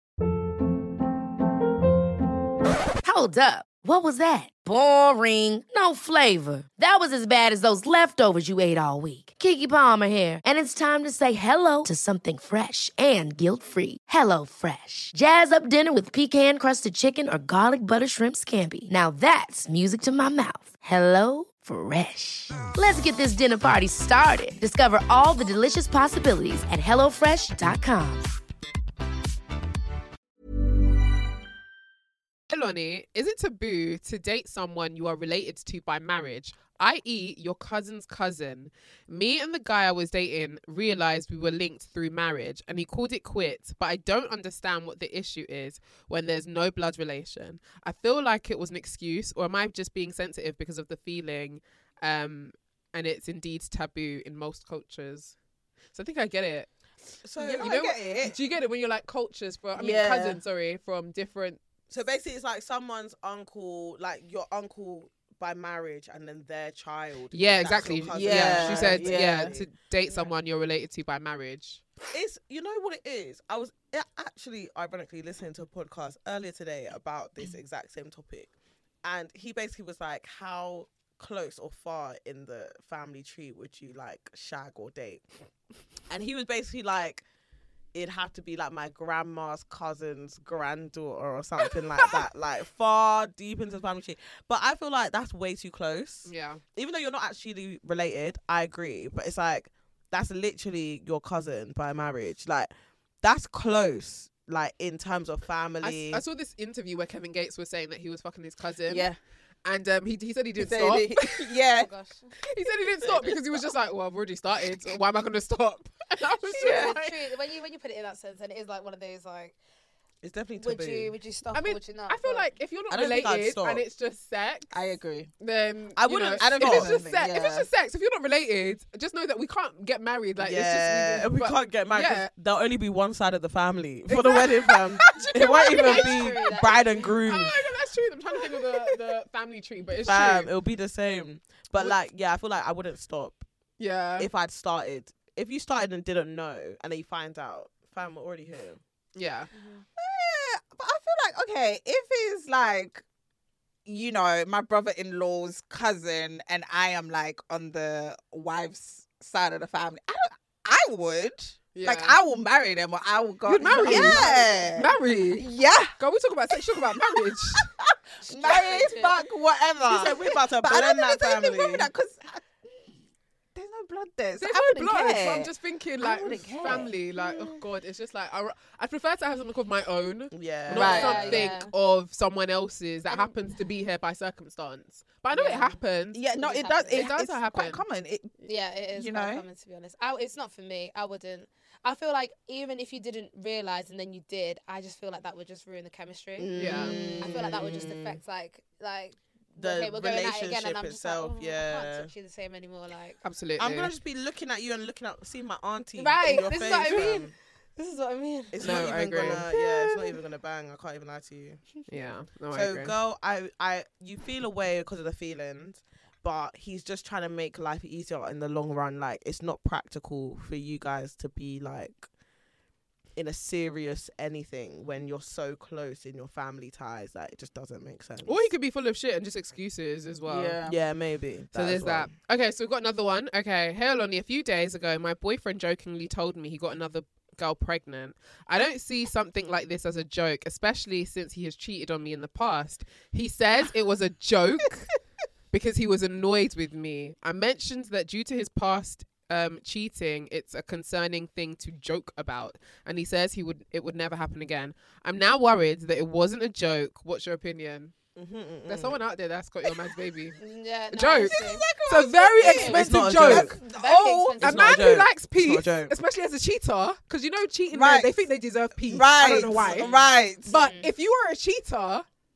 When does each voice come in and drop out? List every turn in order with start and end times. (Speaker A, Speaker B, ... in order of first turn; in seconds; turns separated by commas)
Speaker A: 3.0-28.4, Speaker B: 32.5-55.4, Speaker B: 55.9-56.7, Speaker C: 57.2-57.9, Speaker D: 57.4-58.4, Speaker B: 57.6-61.6, Speaker D: 59.8-60.4, Speaker C: 61.9-70.2, Speaker B: 67.3-71.8, Speaker D: 68.2-69.6, Speaker C: 72.1-78.5, Speaker C: 79.0-85.2, Speaker C: 86.1-87.2, Speaker C: 87.9-102.7, Speaker B: 96.3-96.6, Speaker C: 103.2-106.2, Speaker B: 105.8-109.1, Speaker D: 108.9-109.2, Speaker B: 109.7-111.5, Speaker D: 110.6-111.9, Speaker E: 111.7-112.3, Speaker B: 112.4-117.1, Speaker D: 113.0-113.4, Speaker E: 116.5-119.6, Speaker D: 116.5-117.0, Speaker C: 120.2-121.2, Speaker E: 120.6-122.5, Speaker B: 121.5-124.7, Speaker C: 122.9-123.8, Speaker D: 124.7-125.3, Speaker B: 125.4-132.3, Speaker C: 126.0-127.0, Speaker D: 126.4-127.7, Speaker C: 130.4-137.6, Speaker B: 134.1-136.4, Speaker E: 135.3-137.2, Speaker B: 137.2-140.5, Speaker C: 140.0-143.4, Speaker B: 143.8-144.3, Speaker C: 144.2-148.8, Speaker B: 149.2-149.5, Speaker E: 149.6-149.8, Speaker D: 150.0-153.0, Speaker D: 153.9-166.0, Speaker B: 161.7-162.2, Speaker B: 163.5-167.7, Speaker C: 163.8-164.7, Speaker D: 166.5-172.9, Speaker E: 168.2-169.2, Speaker C: 169.8-171.9, Speaker D: 173.6-177.6, Speaker B: 174.4-186.2, Speaker C: 180.3-181.5, Speaker D: 180.7-181.4, Speaker E: 180.8-181.7, Speaker E: 183.1-183.3, Speaker E: 185.3-185.8, Speaker D: 186.1-188.3, Speaker E: 186.4-187.1, Speaker B: 186.9-187.8, Speaker E: 188.4-196.5, Speaker D: 189.0-189.4, Speaker C: 196.4-198.2, Speaker D: 196.5-197.6, Speaker B: 196.6-197.0, Speaker E: 197.1-203.2, Speaker C: 199.6-202.1, Speaker B: 203.2-203.9, Speaker C: 203.6-207.3, Speaker E: 206.0-210.2, Speaker C: 208.5-211.7, Speaker B: 208.6-209.5, Speaker B: 211.9-212.9, Speaker C: 212.5-222.1, Speaker C: 223.2-228.5, Speaker B: 228.2-230.6, Speaker D: 230.3-230.8, Speaker C: 230.6-232.1, Speaker B: 231.5-244.9, Speaker B: 245.5-257.9, Speaker C: 258.1-259.0, Speaker B: 258.7-260.4, Speaker E: 260.4-261.6, Speaker B: 260.9-263.5, Speaker D: 261.1-264.4, Speaker C: 262.4-263.5, Speaker E: 263.5-264.7, Speaker C: 264.4-266.0, Speaker B: 264.4-269.9, Speaker D: 267.7-268.1, Speaker D: 268.9-270.5, Speaker C: 269.2-270.1, Speaker B: 270.5-272.1, Speaker E: 270.5-270.9